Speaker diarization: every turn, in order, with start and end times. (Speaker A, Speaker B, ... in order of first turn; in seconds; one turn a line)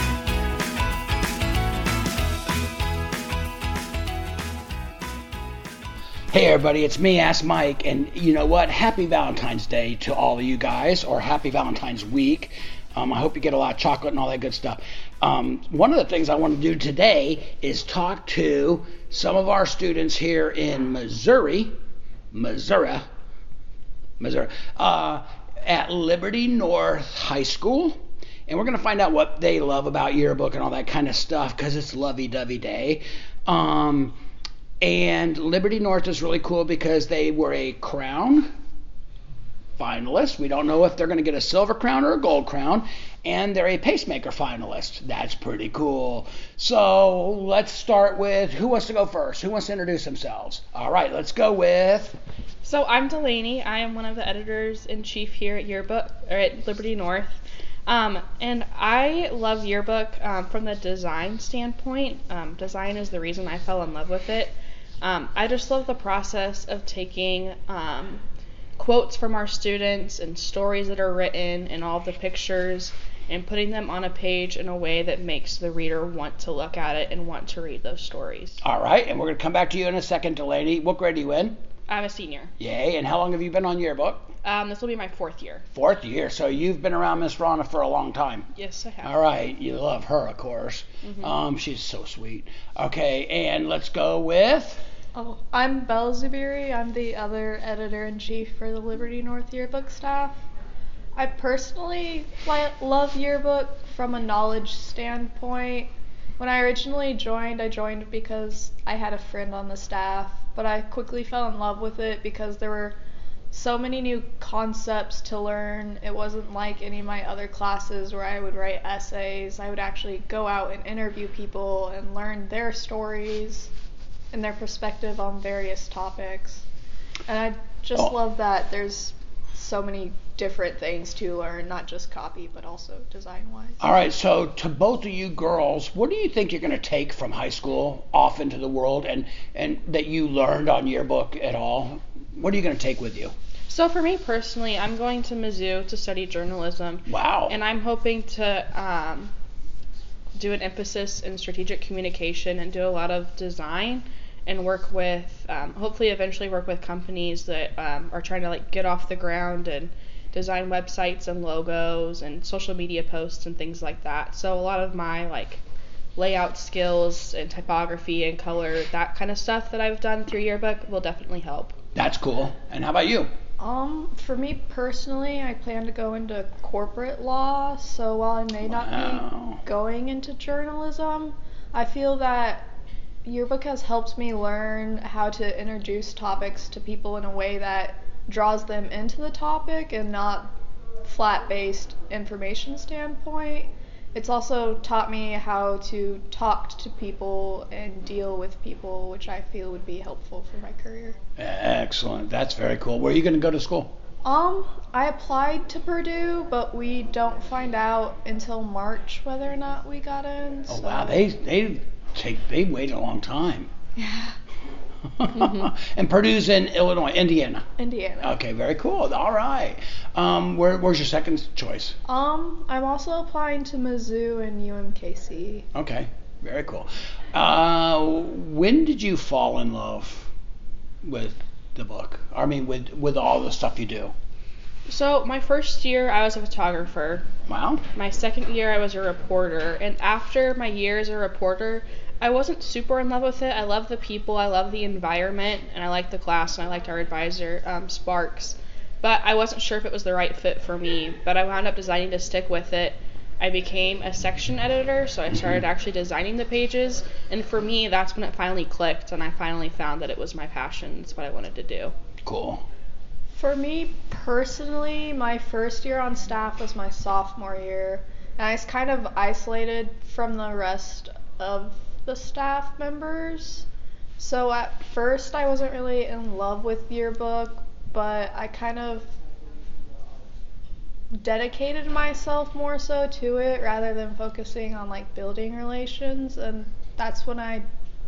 Speaker A: 6.3-21.7
Speaker A: 22.3-23.1
Speaker A: 24.2-34.1
Speaker A: 34.8-38.5
Speaker A: 39.8-52.2
Speaker B: 52.6-68.2
Speaker B: 68.8-78.6
Speaker A: 78.6-81.6
Speaker B: 81.9-82.5
Speaker A: 82.6-84.3
Speaker B: 84.4-85.6
Speaker A: 85.7-88.5
Speaker B: 88.5-89.1
Speaker A: 89.0-94.8
Speaker B: 91.0-91.3
Speaker C: 95.1-100.4
Speaker C: 101.2-113.0
Speaker C: 113.5-123.7
Speaker C: 124.3-126.6
Speaker C: 127.2-133.8
Speaker A: 133.8-143.3
Speaker B: 143.7-149.3
Speaker A: 147.1-147.6
Speaker B: 150.3-165.6
Speaker B: 166.2-171.8
Speaker A: 171.9-173.3
Speaker C: 173.6-182.7
Speaker A: 178.6-179.6
Speaker C: 183.2-201.2
Speaker A: 201.4-203.9
Speaker C: 204.2-211.2
Speaker A: 210.7-213.7
Speaker C: 214.0-214.3
Speaker A: 215.1-217.6
Speaker C: 217.8-218.3
Speaker A: 218.2-221.9
Speaker C: 222.1-225.7
Speaker A: 225.7-230.3
Speaker A: 231.0-234.1
Speaker B: 234.9-237.3
Speaker A: 237.5-237.8
Speaker B: 237.9-261.9
Speaker A: 255.3-255.6
Speaker A: 262.2-262.6
Speaker C: 263.3-273.6
Speaker C: 274.2-279.1
Speaker C: 281.1-287.6